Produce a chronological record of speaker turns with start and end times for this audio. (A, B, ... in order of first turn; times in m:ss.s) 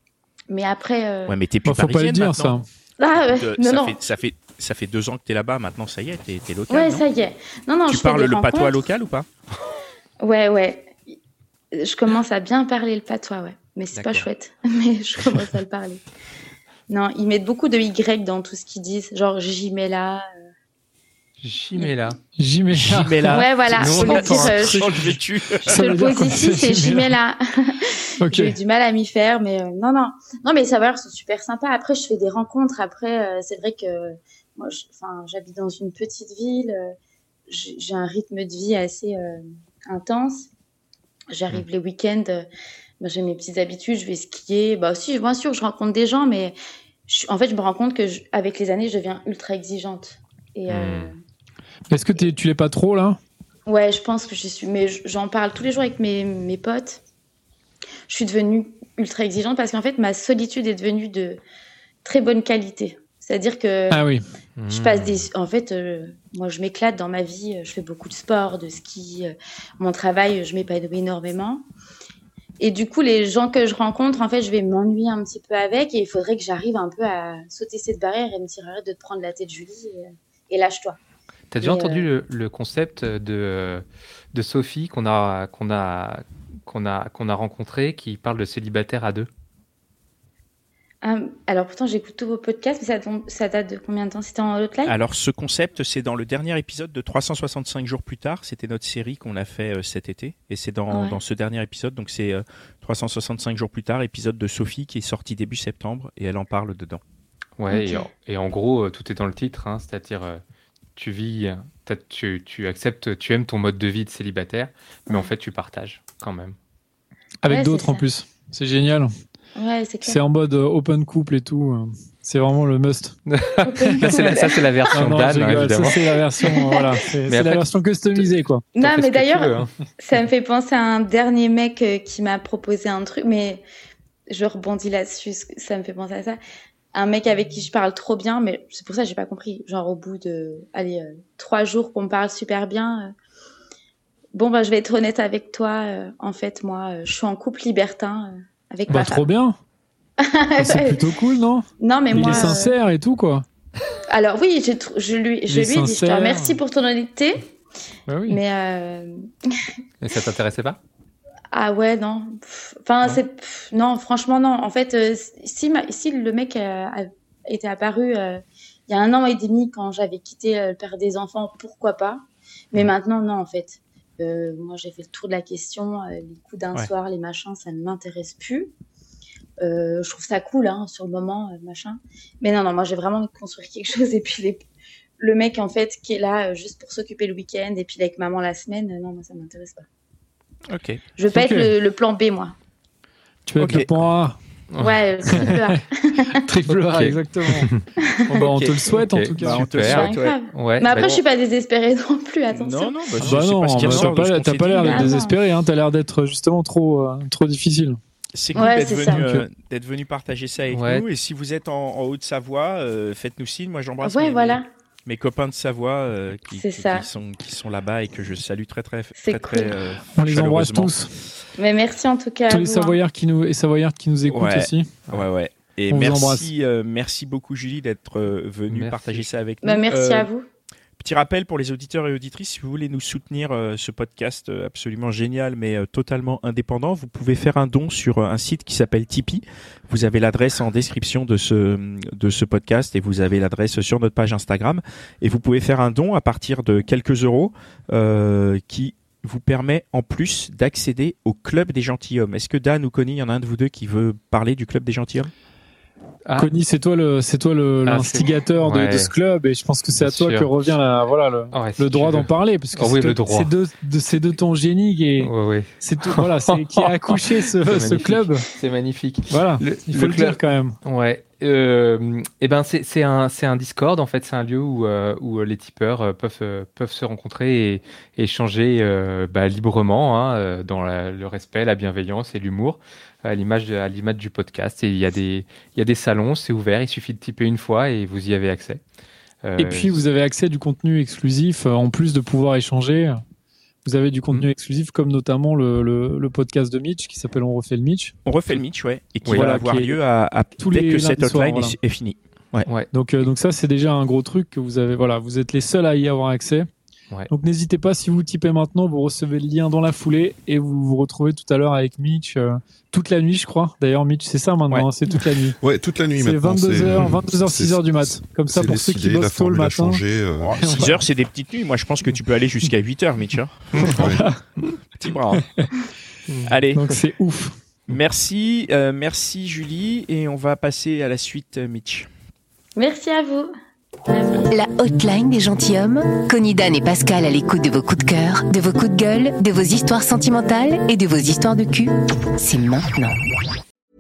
0:00.5-0:01.4 A
0:01.3-0:02.6 B
0:01.6-0:02.6 C
0:03.0-0:04.0 A
0:03.1-0:07.0 B
0:06.7-0:08.8 A
0:07.9-0:09.3 B
0:10.2-0:11.0 A
0:11.7-0:16.0 A
0:13.9-0:14.2 D
0:16.9-0:20.3 A
0:21.4-0:22.2 D
0:22.4-0:27.2 C
0:22.7-0:25.8 B
0:23.3-0:24.9 A
0:23.7-0:24.6 D
0:25.7-0:36.9 A
0:28.2-0:28.6 C
0:37.5-0:40.5 A
0:41.3-0:42.5 A
0:43.0-0:46.6 A
0:47.1-0:51.2 A
0:50.7-0:51.1 D
0:51.9-0:53.2 C
0:53.6-0:57.0 A
0:58.1-1:01.4 A
1:02.0-1:04.1 A
1:03.9-1:04.2 C
1:04.6-1:05.2 D
1:04.7-1:11.6 A
1:12.6-1:21.0 A
1:21.5-1:29.3 D
1:21.6-1:22.1 A
1:31.0-1:35.0 A
1:34.8-1:47.0 B
1:40.9-1:41.2 A
1:47.6-1:50.4 D
1:47.7-1:48.1 A
1:51.0-1:56.6 D
1:57.4-1:59.1 C
1:57.5-1:58.1 A
1:59.5-2:00.2 A
2:00.0-2:03.2 C
2:03.3-2:06.5 D
2:03.6-2:05.1 A
2:03.8-2:04.3 C
2:04.9-2:08.6 C
2:05.8-2:07.0 A
2:07.3-2:09.7 D
2:08.7-2:13.6 A
2:14.3-2:16.4 A
2:16.9-2:23.1 A
2:24.3-2:29.2 A
2:28.9-2:29.6 C
2:30.2-2:31.1 A
2:30.6-2:33.4 C
2:31.8-2:32.8 A
2:34.1-2:37.5 A
2:35.5-2:36.6 C
2:38.1-2:38.4 C
2:38.3-2:39.2 A
2:40.0-2:40.8 D
2:41.5-2:58.7 A
2:59.6-3:04.6 A
3:05.2-3:09.8 A
3:10.7-3:11.0 B
3:11.2-3:12.5 A
3:11.3-3:11.7 C
3:13.4-3:14.4 C
3:13.6-3:13.9 B
3:14.7-3:15.5 D
3:14.8-3:16.5 A
3:15.3-3:15.7 C
3:16.4-3:17.7 C
3:16.7-3:17.8 D
3:18.0-3:18.4 A
3:18.3-3:20.1 C
3:18.4-3:18.8 B
3:18.9-3:21.2 D
3:19.4-3:20.3 B
3:19.8-3:23.0 A
3:20.9-3:21.1 B
3:22.5-3:25.2 B
3:23.2-3:28.0 C
3:23.8-3:24.1 A
3:24.7-3:25.4 A
3:28.3-3:40.9 B
3:28.5-3:29.3 A
3:28.6-3:29.4 C
3:30.7-3:31.0 D
3:34.0-3:34.6 A
3:36.5-3:37.1 A
3:39.2-3:39.8 A
3:40.1-3:41.1 C
3:41.6-3:43.0 A
3:42.5-3:44.9 C
3:44.3-3:50.3 B
3:45.9-3:46.5 C
3:48.7-3:49.3 D
3:49.6-3:50.4 A
3:51.0-4:15.3 B
4:16.2-4:16.5 D
4:16.4-4:28.5 C
4:17.8-4:19.1 D
4:19.9-4:20.5 D
4:21.5-4:23.5 D
4:25.2-4:48.8 D
4:29.3-4:30.8 C
4:49.4-4:50.0 D
4:49.6-4:53.2 C
4:53.8-4:58.1 C
4:58.2-5:02.7 B
4:59.2-4:59.5 D
4:59.3-5:00.0 C
5:00.6-5:01.8 C
5:02.6-5:02.9 D
5:02.9-5:06.7 C
5:07.3-5:15.6 C
5:15.6-5:20.6 E
5:16.2-5:20.0 C
5:20.4-5:24.0 B
5:20.5-5:21.0 C
5:23.8-5:24.4 C
5:23.9-5:24.2 E
5:25.0-5:25.4 B
5:25.3-5:25.7 C
5:26.4-5:26.8 B
5:26.7-5:27.5 C
5:27.9-5:32.1 B
5:32.8-5:33.5 A
5:34.1-5:34.4 A
5:34.5-5:43.1 F